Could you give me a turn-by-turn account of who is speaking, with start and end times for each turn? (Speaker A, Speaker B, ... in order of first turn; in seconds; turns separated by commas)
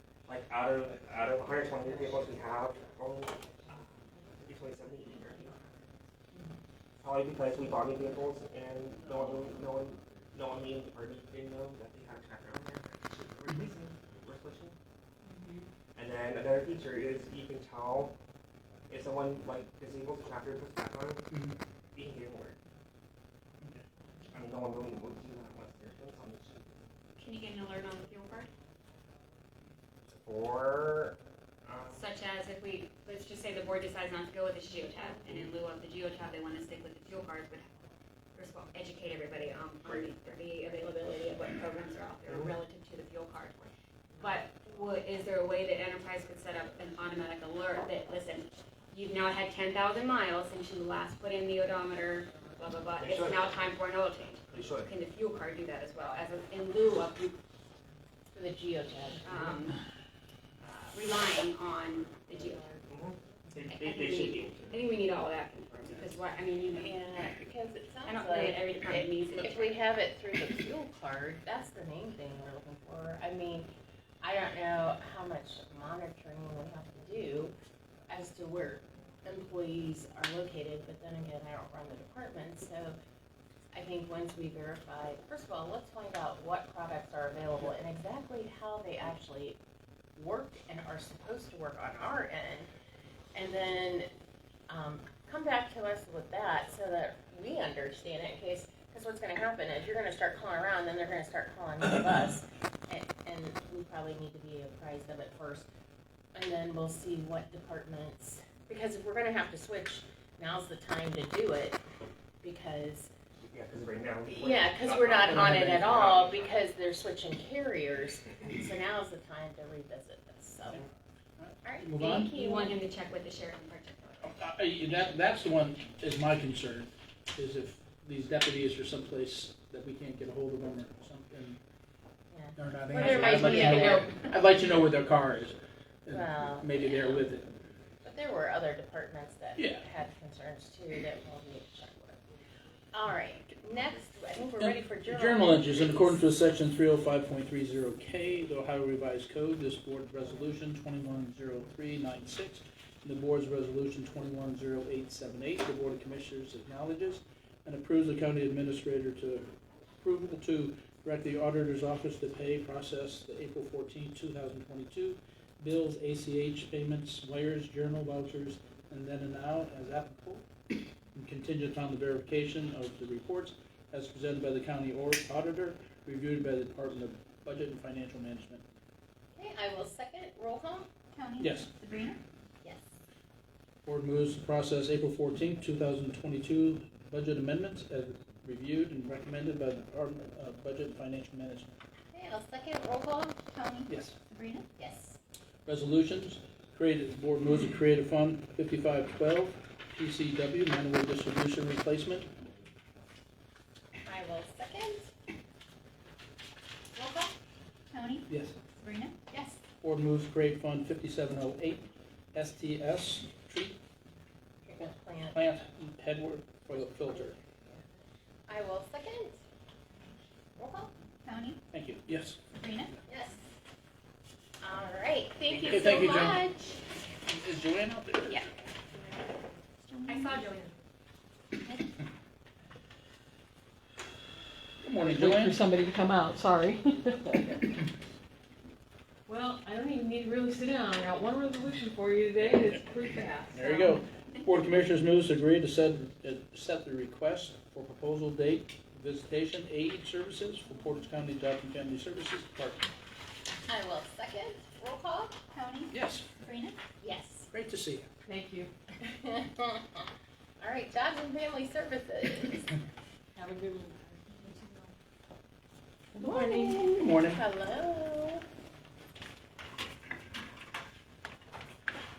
Speaker A: 0.3-3.8, Speaker A: 4.3-5.6, Speaker A: 7.0-14.8, Speaker B: 15.3-15.6, Speaker A: 15.9-18.2, Speaker A: 18.9-21.2, Speaker C: 21.3-21.6, Speaker A: 21.9-22.6, Speaker A: 24.3-26.8, Speaker B: 27.2-28.5, Speaker A: 30.1-32.0, Speaker B: 31.9-37.7, Speaker B: 38.4-57.4, Speaker A: 39.9-40.1, Speaker A: 53.0-53.5, Speaker A: 54.5-54.9, Speaker D: 58.3-59.3, Speaker B: 59.2-59.8, Speaker B: 60.6-62.9, Speaker A: 62.9-64.8, Speaker B: 63.6-67.0, Speaker D: 66.8-73.7, Speaker B: 68.0-69.8, Speaker D: 74.2-77.5, Speaker D: 78.1-83.0, Speaker D: 83.7-89.6, Speaker D: 90.2-92.7, Speaker D: 93.3-94.1, Speaker D: 94.7-105.7, Speaker D: 106.3-111.8, Speaker D: 112.4-113.1, Speaker A: 113.4-116.6, Speaker D: 114.3-120.8, Speaker C: 121.4-122.3, Speaker D: 121.6-122.8, Speaker B: 122.3-124.3, Speaker C: 124.2-131.6, Speaker D: 132.3-134.2, Speaker C: 132.6-137.5, Speaker D: 136.1-137.2, Speaker D: 138.0-142.2, Speaker C: 139.6-139.8, Speaker D: 142.9-146.2, Speaker C: 144.6-170.5, Speaker C: 171.2-178.6, Speaker D: 179.3-180.9, Speaker E: 181.1-182.2, Speaker C: 181.4-181.7, Speaker C: 183.8-191.8, Speaker D: 192.1-193.6, Speaker E: 193.5-194.8, Speaker C: 193.9-194.2, Speaker D: 194.8-195.2, Speaker C: 195.7-202.3, Speaker D: 204.1-205.1, Speaker D: 207.0-207.3, Speaker E: 207.9-209.2, Speaker C: 208.3-208.6, Speaker D: 209.3-209.6, Speaker C: 209.8-213.8, Speaker D: 214.7-215.4, Speaker C: 215.3-217.4, Speaker D: 217.0-217.8, Speaker D: 218.5-219.4, Speaker D: 220.6-220.9, Speaker E: 221.2-221.6, Speaker C: 221.7-222.5, Speaker E: 222.5-222.9, Speaker D: 223.1-223.4, Speaker D: 224.6-226.8, Speaker C: 225.7-226.5, Speaker C: 227.3-228.4, Speaker E: 229.9-230.4, Speaker B: 230.1-230.7, Speaker C: 234.8-235.6, Speaker F: 235.0-237.6, Speaker F: 239.3-243.8, Speaker C: 243.5-252.8, Speaker D: 253.7-255.4, Speaker E: 255.5-256.8, Speaker C: 255.9-256.4, Speaker D: 257.0-257.5, Speaker C: 257.5-258.1, Speaker F: 258.3-258.7, Speaker D: 259.0-260.1, Speaker D: 260.6-262.7, Speaker F: 263.3-264.6, Speaker F: 266.1-266.8, Speaker C: 266.2-267.4, Speaker D: 267.2-268.4